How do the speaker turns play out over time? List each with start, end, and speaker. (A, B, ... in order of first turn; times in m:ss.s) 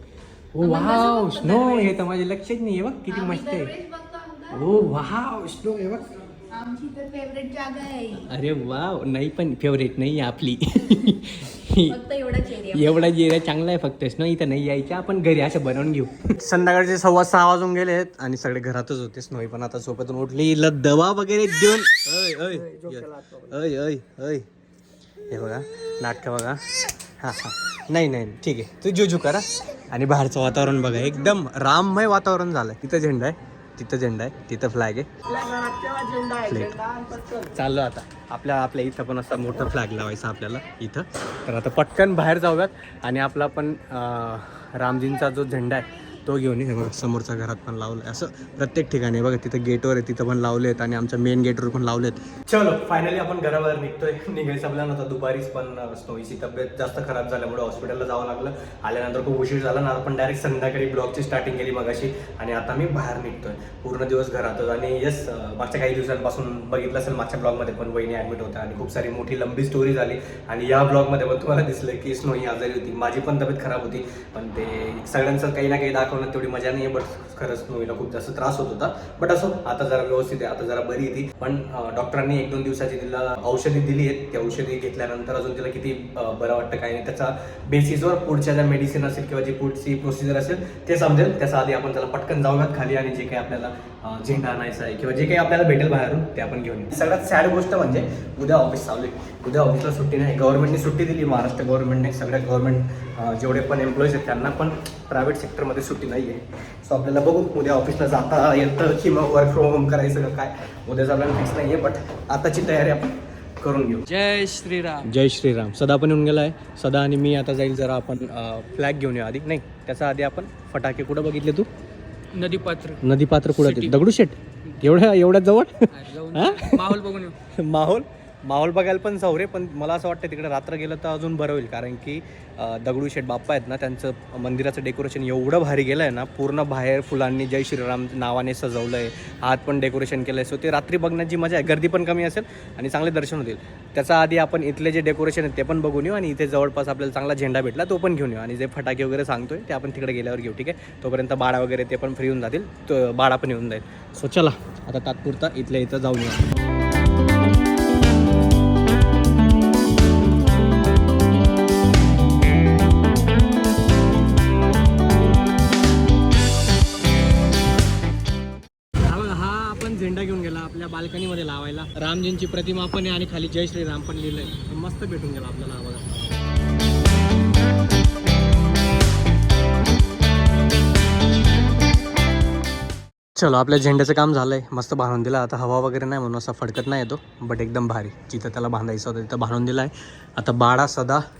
0:00.6-0:03.7 A
0:00.6-0:02.0 B
0:03.1-0:04.7 B
0:04.5-0:06.2 A
0:06.5-0:08.3 B
0:08.2-0:12.0 A
0:11.9-0:13.2 B
0:12.7-0:24.5 A
0:25.3-1:54.1 A
1:54.1-1:55.1 C
1:55.0-2:01.7 A
2:02.3-2:03.0 C
2:03.0-2:36.5 A
2:03.6-2:04.0 C
2:05.9-2:07.4 C
2:49.0-2:56.2 A
3:03.4-3:11.2 A